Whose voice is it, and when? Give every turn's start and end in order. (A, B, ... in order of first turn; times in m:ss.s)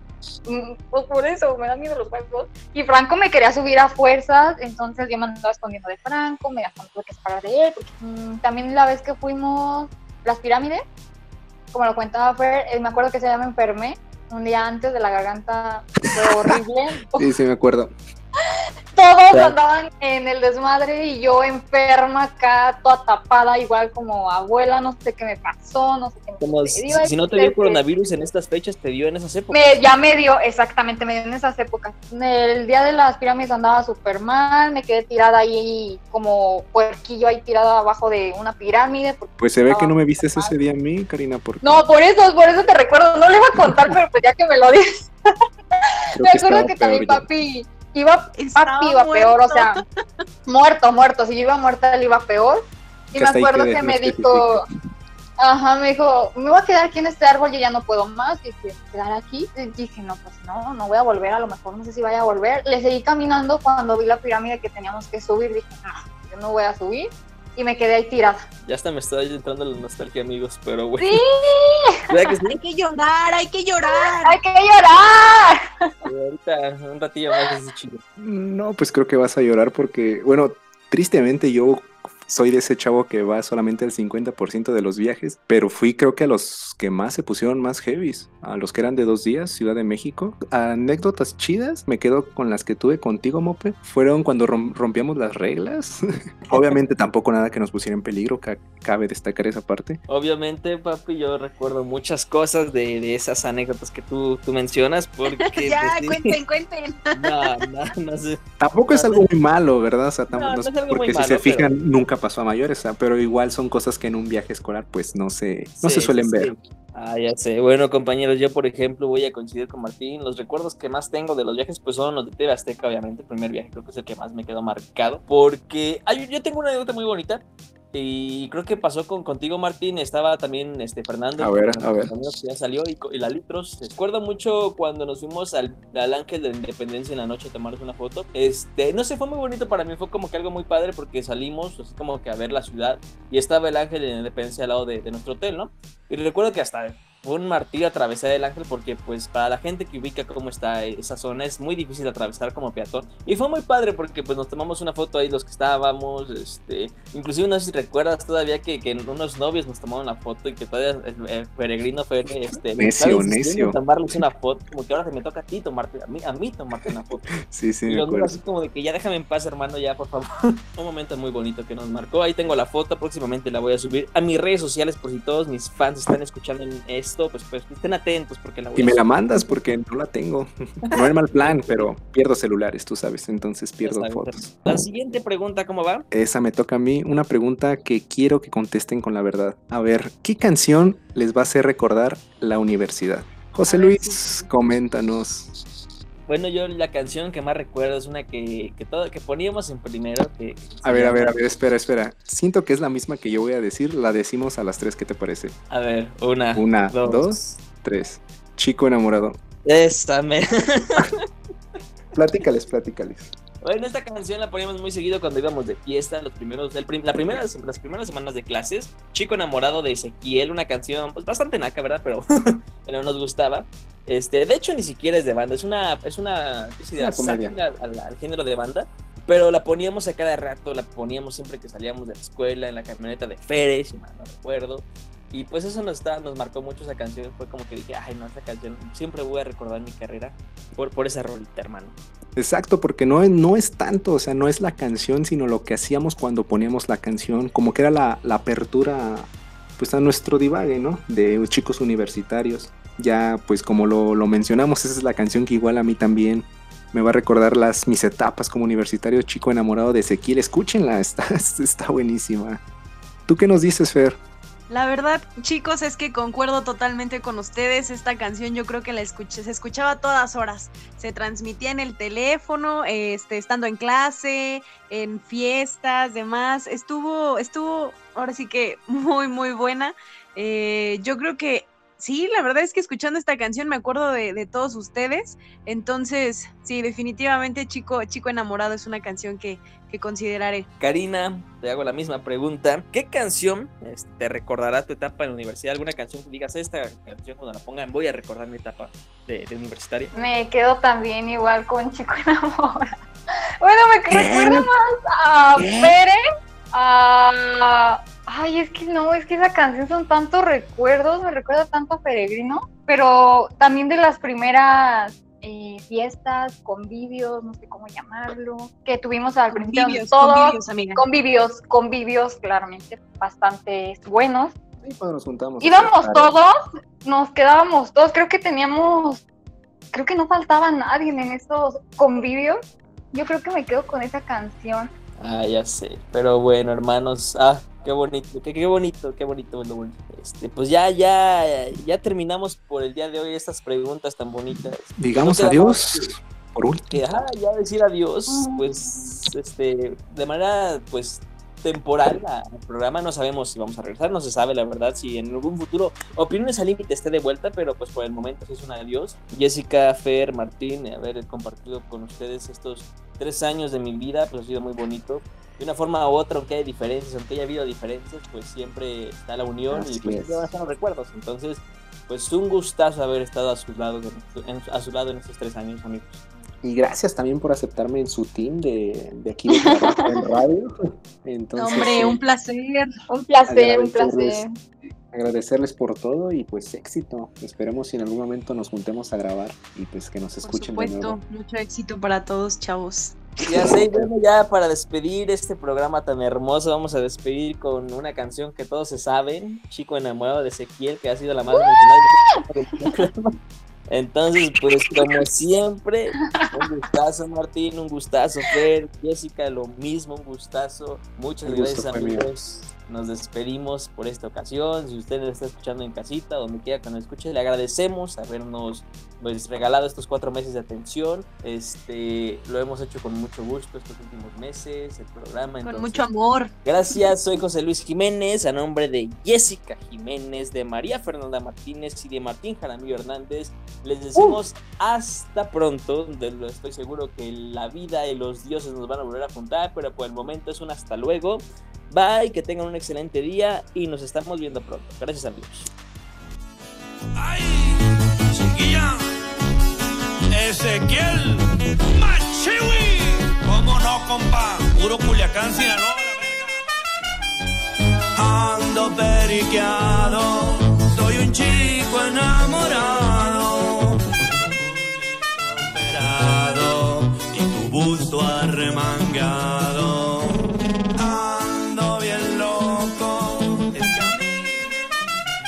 0:00.4-0:10.8 A
0:11.7-0:17.3 A
0:17.2-0:17.9 B
0:18.9-0:27.8 A
0:26.4-0:29.7 C
0:29.5-0:40.6 A
0:39.4-0:41.8 B
0:41.6-0:45.1 A
0:46.1-0:47.2 B
0:46.2-0:49.8 A
0:48.3-0:49.8 D
0:50.5-0:52.6 A
0:53.1-0:54.6 A
0:53.1-0:54.6 B
0:55.4-1:08.4 A
1:08.6-1:11.2 C
1:11.0-1:11.9 A
1:12.1-1:12.5 C
1:12.6-1:14.4 D
1:13.8-1:15.6 A
1:16.0-1:18.0 C
1:18.2-1:40.0 B
1:40.1-1:46.3 C
1:45.3-1:47.5 D
1:47.1-1:48.4 C
1:48.6-1:56.5 B
1:48.9-1:49.2 C
1:50.3-1:51.7 C
1:55.8-2:47.3 C
2:11.4-2:12.1 B
2:42.7-2:43.8 B
2:47.5-2:48.4 B
2:47.9-2:59.5 C
2:58.7-3:04.4 B
3:00.9-3:01.9 C
3:03.8-3:06.0 C
3:06.1-3:15.5 B
3:13.6-3:14.4 D
3:16.2-3:21.4 C
3:20.8-3:25.5 B
3:25.7-3:27.6 C
3:26.5-3:29.4 B
3:29.6-3:31.1 C
3:32.1-3:33.3 B
3:33.6-4:02.0 C
3:47.0-3:47.6 B
4:02.4-4:22.6 B
4:23.3-4:24.2 B
4:24.7-4:50.6 D
4:50.8-5:00.1 C
5:00.1-5:02.8 A
5:03.6-5:06.2 A
5:06.7-5:24.5 A
5:19.5-5:21.0 D
5:24.8-5:26.3 B
5:25.6-5:26.5 A
5:27.0-5:29.2 A
5:29.9-5:32.6 A
5:33.1-5:34.9 A
5:35.2-5:46.1 C
5:45.0-5:47.0 B
5:46.9-6:16.2 C
5:48.3-5:49.0 A
6:09.7-6:10.5 B
6:16.6-6:20.7 B
6:21.2-6:22.2 B
6:21.6-6:22.9 D
6:23.1-6:24.5 A
6:23.4-6:24.4 B
6:25.1-6:31.2 B
6:30.4-6:33.2 D
6:33.4-6:43.3 C
6:33.5-6:34.1 B
6:41.5-6:42.3 A
6:43.9-7:06.0 C
6:51.4-6:52.3 B
7:05.6-7:06.5 D
7:06.6-7:25.7 C
7:27.1-7:29.0 E
7:30.3-7:37.1 E
7:38.2-7:55.0 E